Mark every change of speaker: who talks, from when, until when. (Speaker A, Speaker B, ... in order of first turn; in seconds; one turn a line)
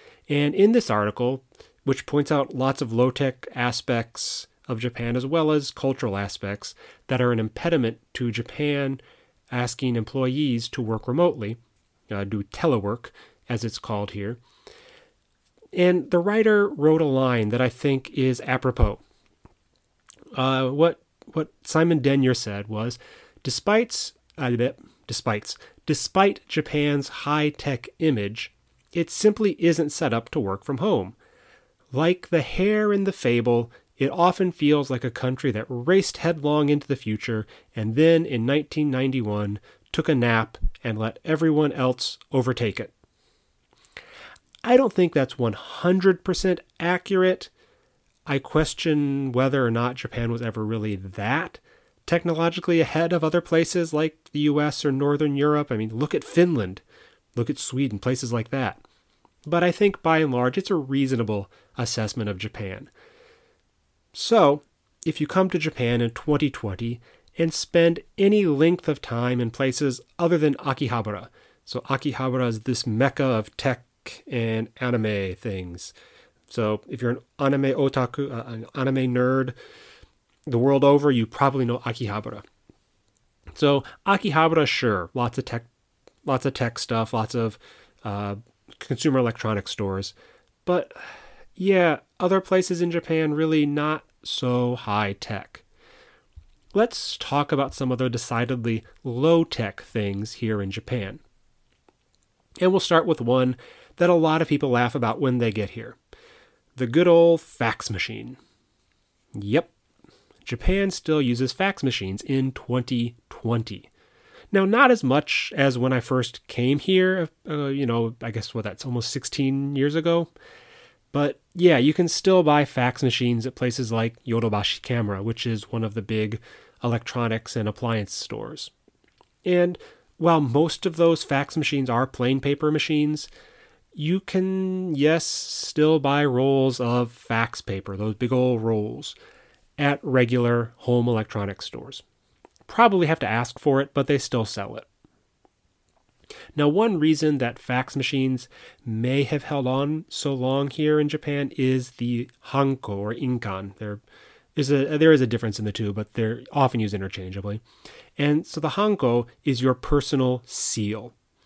Speaker A: 0.3-14.4
Speaker A: 15.7-19.0
Speaker A: 20.4-31.1
Speaker A: 31.9-42.9
Speaker A: 44.6-47.5
Speaker A: 48.3-56.8
Speaker A: 57.3-58.8
Speaker A: 59.5-62.9
Speaker A: 64.1-75.9
Speaker A: 76.5-79.5
Speaker A: 80.5-82.4
Speaker A: 83.5-85.7
Speaker A: 86.2-95.6
Speaker A: 96.7-101.2
Speaker A: 102.6-106.0
Speaker A: 106.8-108.4
Speaker A: 109.3-109.7
Speaker A: 110.4-113.9
Speaker A: 114.5-120.3
Speaker A: 121.1-128.7
Speaker A: 129.4-133.3
Speaker A: 133.9-139.2
Speaker A: 139.8-142.0
Speaker A: 142.7-144.9
Speaker A: 146.5-154.0
Speaker A: 154.6-157.6
Speaker A: 158.2-161.1